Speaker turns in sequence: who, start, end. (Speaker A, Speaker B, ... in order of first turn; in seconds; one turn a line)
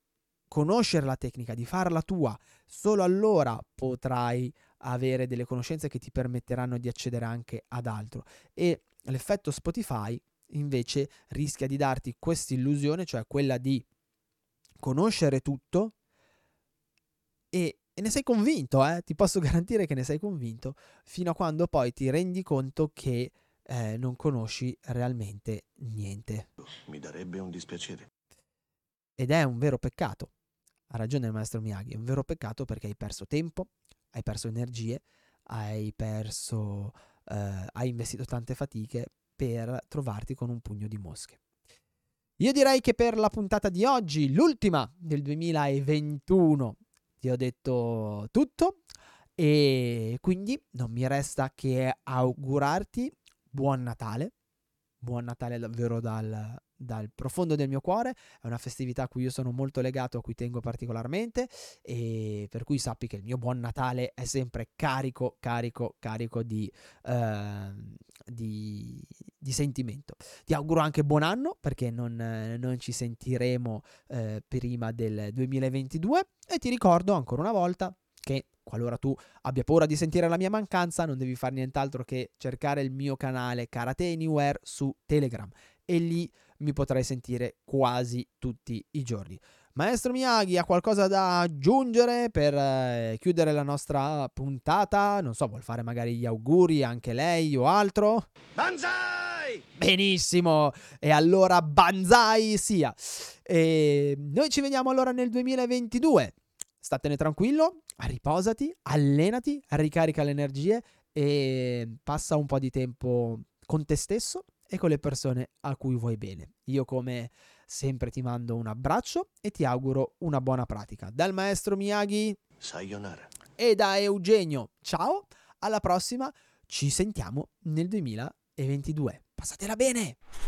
Speaker A: 0.5-13.8
Speaker A: 14.8-15.9
Speaker A: 17.5-26.5
Speaker B: 26.6-28.1
Speaker A: 29.2-30.3
Speaker A: 30.9-41.4
Speaker A: 42.4-48.8
Speaker A: 49.4-54.3
Speaker A: 55.0-98.3
Speaker B: 98.6-99.6
Speaker A: 99.8-122.4
Speaker B: 122.6-123.3
Speaker A: 123.6-130.2